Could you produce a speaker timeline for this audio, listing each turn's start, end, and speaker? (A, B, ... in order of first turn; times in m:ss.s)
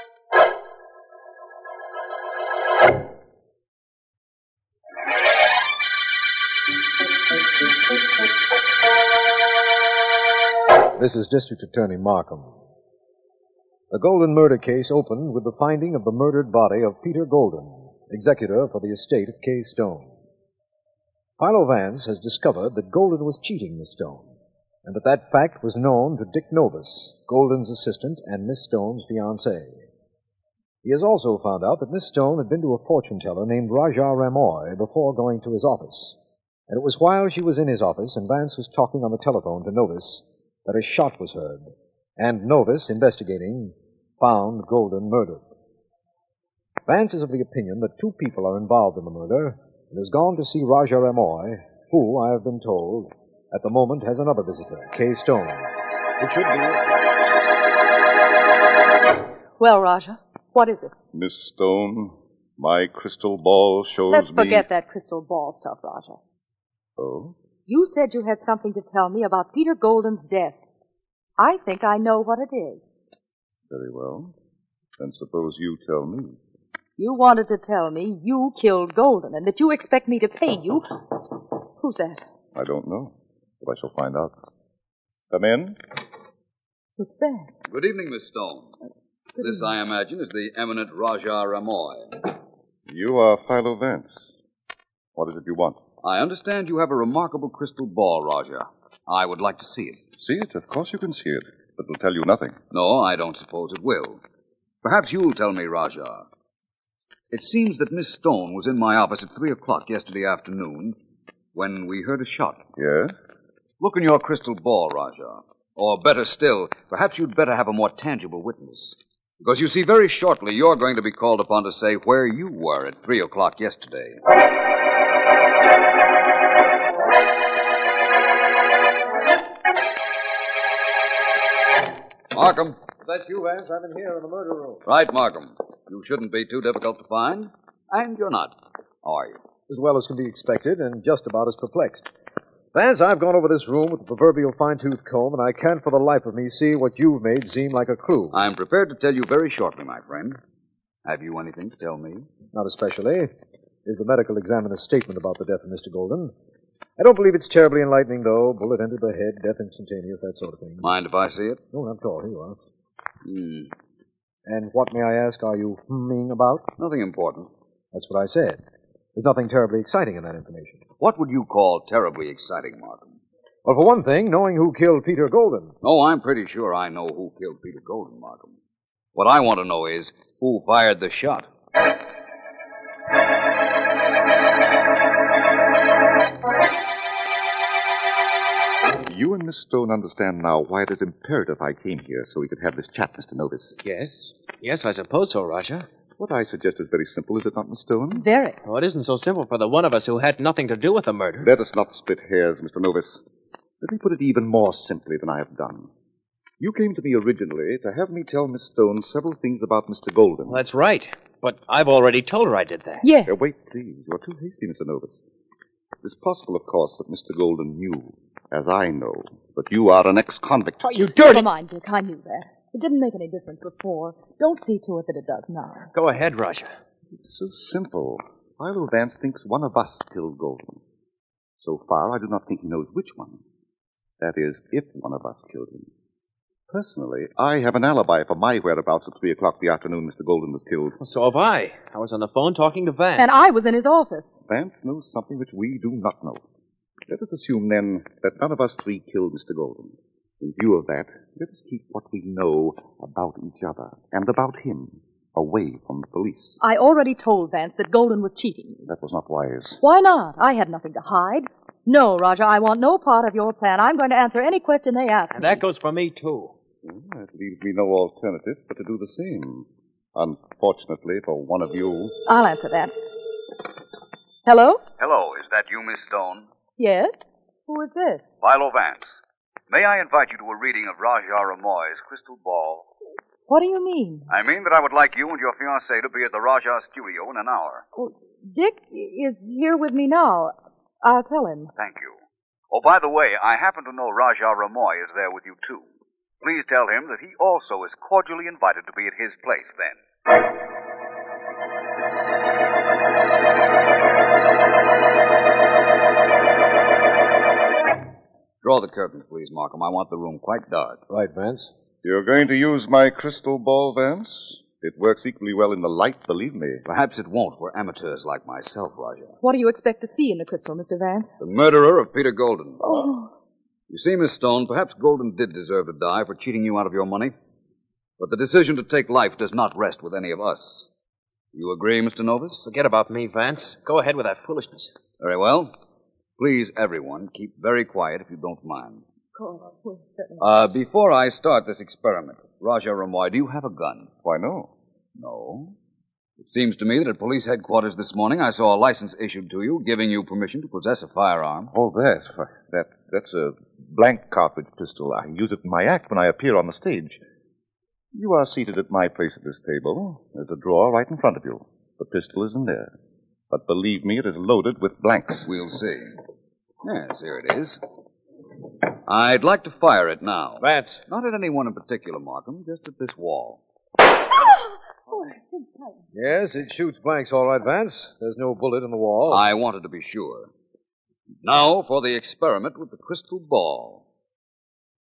0:10.9-0:12.5 A
0:13.9-0:20.1 A
0:21.4-0:24.3 A
0:24.8-0:29.8 A
0:30.8-0:36.2 A
0:36.7-0:45.4 A
0:46.9-0:56.8 A
0:59.6-1:00.9 B
1:01.1-1:04.7 C
1:04.1-1:06.2 B
1:07.0-1:07.4 C
1:07.7-1:10.6 B
1:11.4-1:12.9 B
1:13.7-1:14.3 C
1:15.0-1:16.4 C
1:17.0-1:21.1 B
1:21.8-1:22.2 B
1:22.5-1:24.3 C
1:25.3-1:25.8 C
1:27.0-1:27.6 B
1:27.7-1:28.8 D
1:29.4-1:32.2 D
1:32.9-1:34.2 C
1:35.2-1:35.8 C
1:36.0-1:40.0 D
1:40.2-1:42.6 C
1:42.7-1:44.2 D
1:44.8-1:46.3 D
1:47.3-1:51.0 D
1:51.6-1:52.6 D
1:52.8-1:53.1 C
1:53.8-2:04.2 D
2:12.3-2:12.8 D
2:13.0-2:14.8 A
2:14.9-2:19.4 D
2:19.7-2:22.1 A
2:22.7-2:28.4 A
2:28.3-2:30.4 D
2:31.0-2:32.3 D
2:32.5-2:33.3 A
2:33.8-2:36.3 A
2:37.0-2:40.9 A
2:40.8-2:41.6 D
2:41.7-2:42.6 A
2:43.2-2:43.7 D
2:44.5-2:46.7 A
2:46.8-2:47.5 D
2:47.9-2:48.6 A
2:49.2-2:50.8 A
2:51.0-2:53.2 D
2:53.6-2:55.8 A
2:55.8-2:58.6 D
2:59.2-3:01.5 D
3:09.0-3:13.8 C
3:13.8-3:15.9 E
3:16.2-3:18.3 C
3:18.1-3:18.6 B
3:18.6-3:21.5 E
3:21.4-3:23.2 C
3:23.8-3:25.9 C
3:26.6-3:30.6 C
3:30.5-3:33.1 E
3:33.0-3:33.3 B
3:33.2-3:35.2 C
3:36.0-3:40.8 C
3:40.8-3:41.5 E
3:41.2-3:45.9 B
3:45.9-3:46.7 E
3:47.2-3:50.8 C
3:51.6-3:53.4 C
3:54.2-3:55.9 C
3:56.7-4:01.0 C
4:01.0-4:03.3 E
4:03.2-4:04.3 B
4:04.5-4:06.4 C
4:07.1-4:16.6 C
4:16.6-4:18.9 B
4:18.9-4:19.8 C
4:19.8-4:25.6 B
4:25.3-4:26.5 E
4:26.8-4:32.2 C
4:32.3-4:32.9 B
4:34.5-4:34.8 B
4:35.0-4:36.5 D
4:36.8-4:37.2 B
4:37.7-4:38.2 B
4:38.4-4:39.2 D
4:39.7-4:42.9 D
4:43.5-4:44.3 B
4:44.3-4:47.8 D
4:48.0-4:51.7 B
4:51.8-4:52.2 D
4:52.7-4:55.9 D
4:56.4-5:00.0 D
5:08.6-5:11.0 D
5:11.1-5:11.7 A
5:12.0-5:16.8 C
5:16.9-5:19.4 D
5:19.4-5:21.3 B
5:21.4-5:22.9 D
5:22.8-5:23.3 B
5:23.9-5:27.4 D
5:28.2-5:30.9 D
5:31.5-5:32.6 D
5:32.6-5:34.9 E
5:35.2-5:35.7 D
5:36.4-5:39.0 D
5:39.4-5:40.7 B
5:40.4-5:44.1 D
5:44.2-5:44.7 C
5:45.2-5:45.8 D
5:46.4-5:51.7 D
5:51.7-5:57.2 C
5:58.1-6:02.9 C
6:03.5-6:05.5 C
6:05.5-6:06.2 D
6:06.8-6:07.8 D
6:09.1-6:13.6 D
6:10.6-6:11.0 A
6:15.1-6:16.0 B
6:16.1-6:19.5 A
6:19.3-6:20.5 D
6:21.4-6:24.0 D